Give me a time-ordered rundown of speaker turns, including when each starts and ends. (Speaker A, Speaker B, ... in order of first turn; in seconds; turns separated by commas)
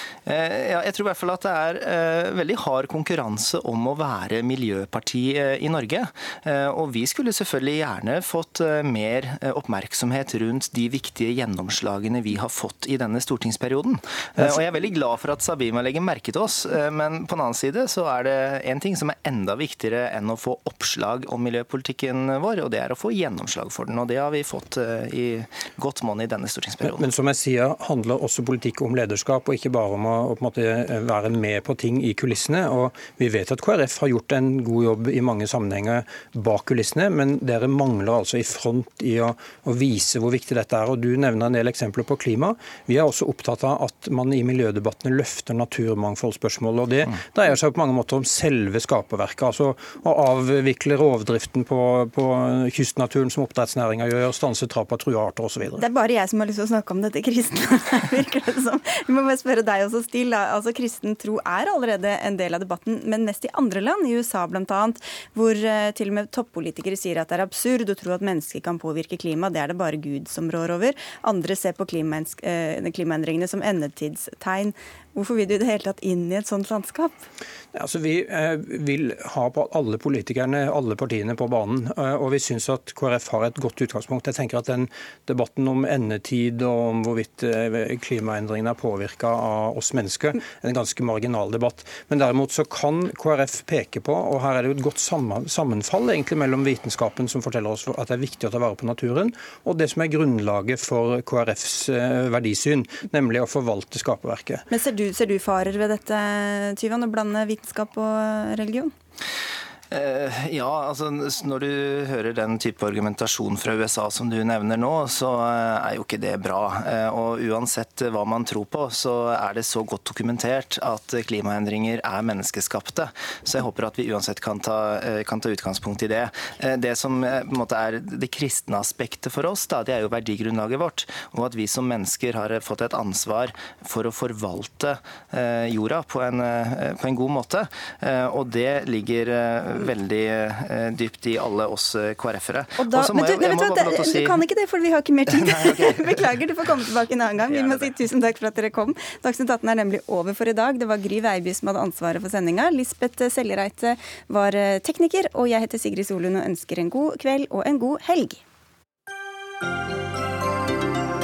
Speaker A: 0.3-27.1, Speaker B: 14.4-14.7, Speaker B: 26.8-55.8, Speaker C: 55.7-77.3, Speaker B: 77.8-104.6, Speaker C: 104.7-108.9, Speaker A: 109.9-144.4, Speaker C: 142.8-158.4, Speaker A: 145.6-146.0, Speaker A: 147.5-147.8